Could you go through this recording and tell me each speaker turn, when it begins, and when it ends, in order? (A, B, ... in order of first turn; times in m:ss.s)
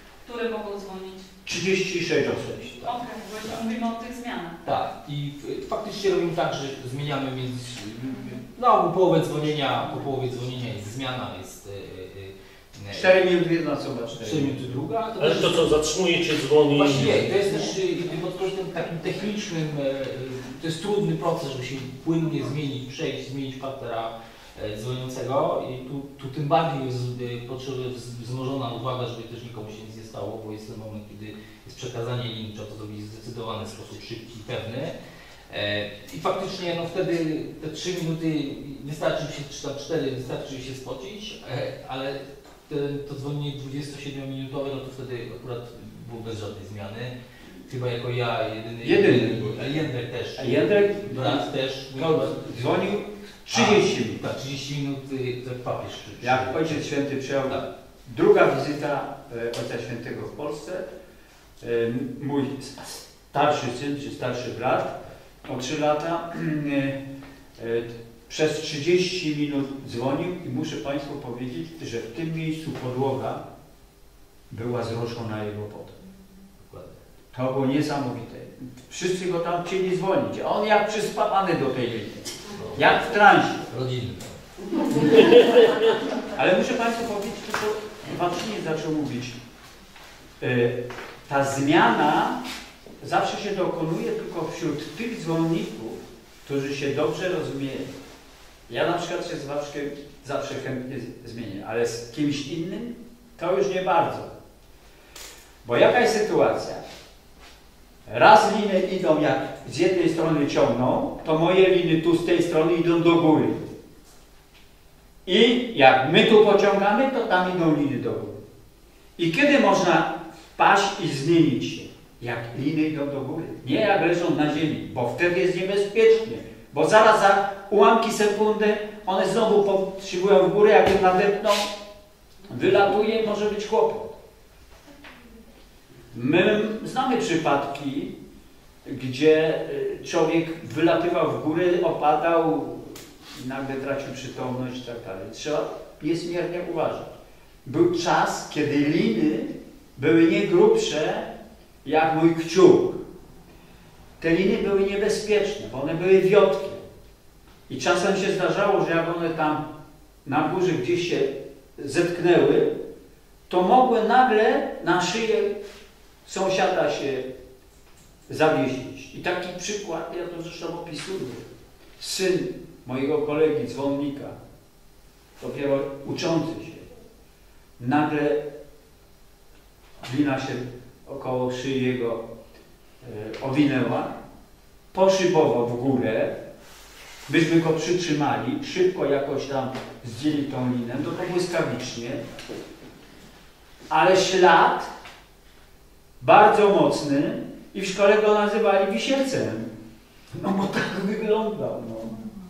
0:00.2-0:01.3 A
0:01.4-0:02.8 B
0:02.8-0:04.6 A
0:04.6-0:13.2 C
0:12.9-0:14.8 B
0:14.2-0:15.8 C
0:15.2-0:17.4 D
0:16.7-0:35.0 C
0:35.5-0:47.1 C
0:47.6-0:52.5 C
0:48.8-0:49.8 B
0:50.4-0:54.2 B
0:53.5-0:56.8 C
0:56.2-1:00.9 B
1:01.6-1:07.0 B
1:07.6-1:13.4 B
1:14.5-1:16.0 B
1:16.6-1:17.0 C
1:17.3-1:23.6 B
1:22.5-1:23.0 C
1:23.7-1:24.4 C
1:25.1-1:25.9 D
1:26.3-1:29.4 B
1:30.4-1:32.4 B
1:33.0-1:37.9 B
1:38.7-1:44.3 B
1:45.6-1:46.8 B
1:48.0-1:53.7 B
1:55.2-1:58.4 B
1:59.2-2:11.7 B
2:12.5-2:14.2 B
2:16.1-2:18.2 B
2:18.8-2:27.1 B
2:27.6-2:31.3 B
2:31.8-2:33.0 B
2:34.2-2:36.8 B
2:37.7-2:39.7 B
2:40.2-2:42.8 B
2:43.5-2:45.6 B
2:46.2-2:47.3 B
2:48.3-2:51.5 B
2:52.0-2:54.4 B
2:55.4-2:56.9 B
2:57.8-2:58.4 B
3:00.0-3:02.2 B
3:03.0-3:04.1 B
3:04.9-3:06.4 B
3:07.3-3:12.2 B
3:13.9-3:14.9 B
3:16.2-3:19.7 B
3:20.3-3:22.2 B